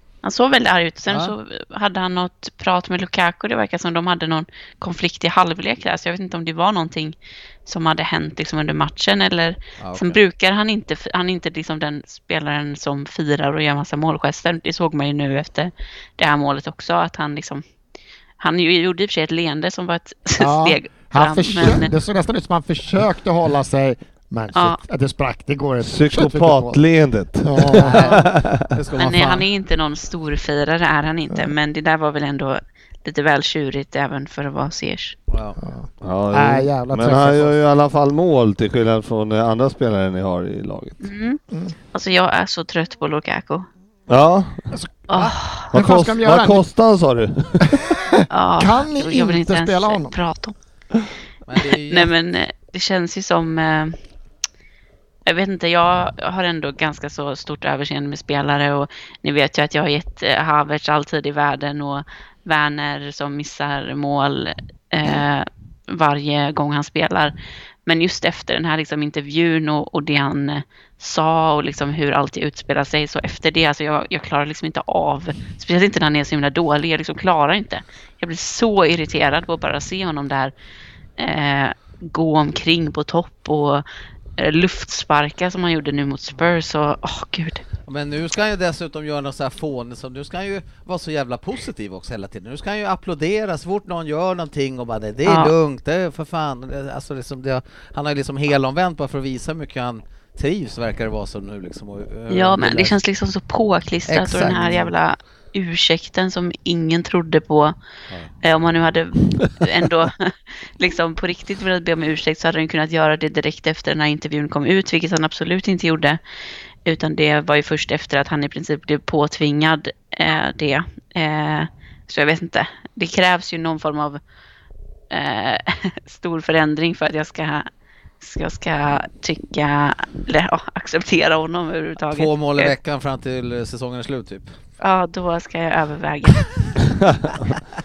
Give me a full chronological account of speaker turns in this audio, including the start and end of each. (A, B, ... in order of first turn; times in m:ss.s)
0:00.2-0:17.6 A
0:01.1-0:01.4 B
0:09.8-0:10.2 B
0:18.4-0:21.9 A
0:20.4-0:26.8 C
0:25.8-0:28.7 D
0:27.4-0:28.2 C
0:27.7-0:29.5 B
0:29.0-0:35.2 A
0:35.3-0:35.6 B
0:35.6-0:37.6 C
0:36.0-0:41.1 D
0:41.0-0:41.4 A
0:41.9-0:43.7 A
0:44.1-0:44.7 D
0:44.7-0:46.6 C
0:45.1-0:45.7 A
0:45.7-0:48.0 D
0:47.7-0:50.2 C
0:48.3-0:50.6 A
0:51.4-0:52.1 B
0:51.9-0:54.0 A
0:55.3-1:20.5 A
1:21.2-1:23.8 A
1:24.4-1:27.6 A
1:27.9-1:43.0 B
1:35.3-1:35.5 A
1:42.3-1:47.8 A
1:44.1-1:44.9 B
1:48.4-1:56.2 A
1:56.8-2:04.2 A
2:05.1-2:07.7 A
2:08.2-2:12.7 A
2:12.0-2:14.5 B
2:14.8-2:16.5 A
2:16.8-2:17.6 D